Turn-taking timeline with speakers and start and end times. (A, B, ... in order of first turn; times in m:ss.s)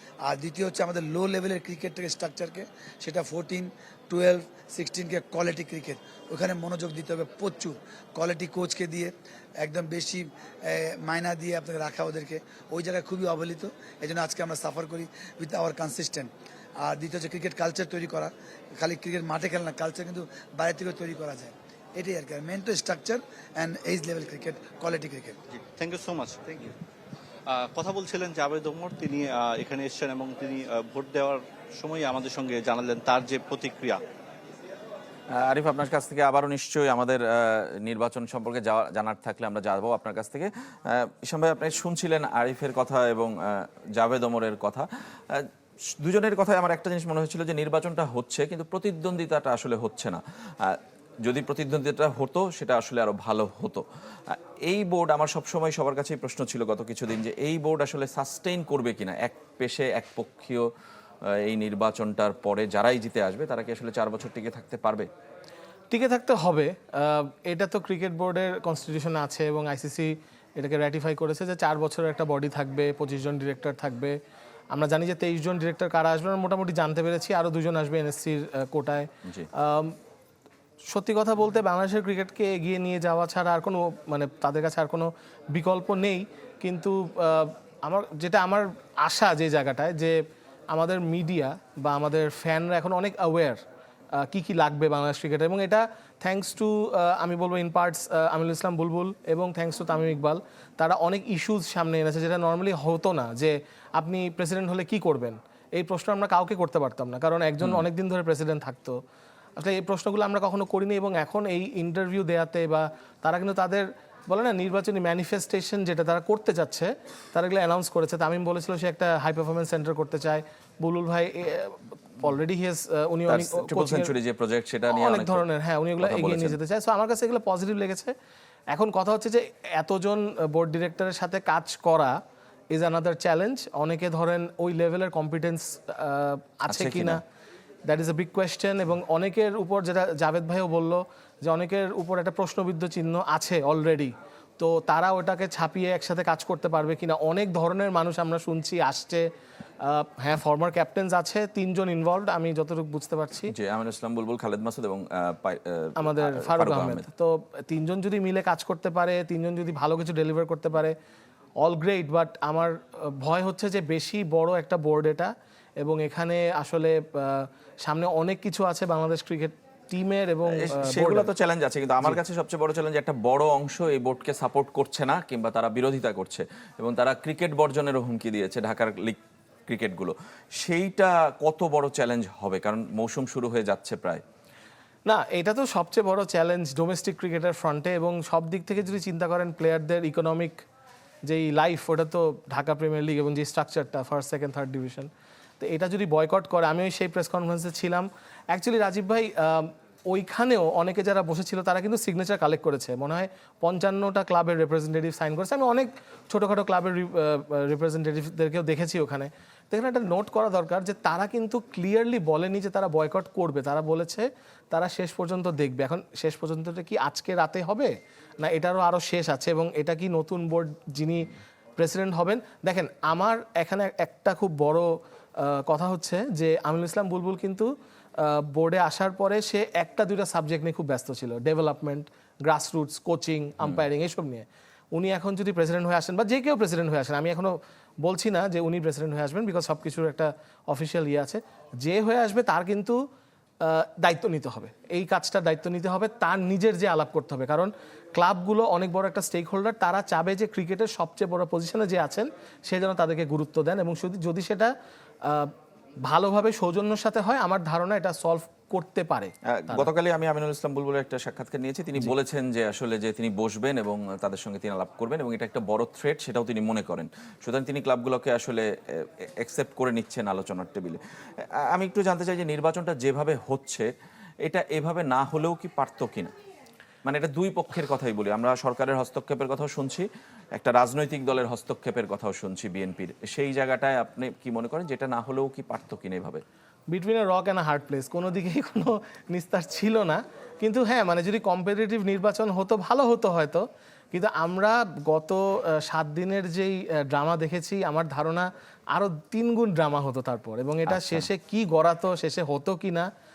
0:00.2-0:25.4 A
0:25.5-0:26.5 B
0:27.5-0:34.0 B
0:35.3-1:00.7 C
1:01.3-1:05.1 C
1:05.9-1:14.2 D
1:14.7-1:20.0 D
1:20.9-1:30.2 D
1:30.7-1:33.6 D
1:34.2-1:49.0 D
1:49.6-2:04.1 D
2:03.3-2:05.5 C
2:04.9-2:08.1 D
2:06.0-2:06.6 C
2:08.7-2:12.2 D
2:12.7-2:17.2 D
2:16.7-2:17.2 C
2:17.9-2:29.3 D
2:29.8-2:33.5 D
2:33.5-2:37.1 C
2:36.0-2:41.0 D
2:41.6-2:51.3 D
2:50.5-3:04.2 C
3:05.1-3:10.6 D
3:11.3-3:15.1 D
3:15.6-4:03.0 D
4:03.6-4:14.7 D
4:15.2-4:15.5 D
4:16.1-4:19.9 D
4:19.5-4:33.9 C
4:34.4-4:36.3 C
4:37.0-4:46.4 C
4:46.9-5:03.1 D
5:00.9-5:01.3 C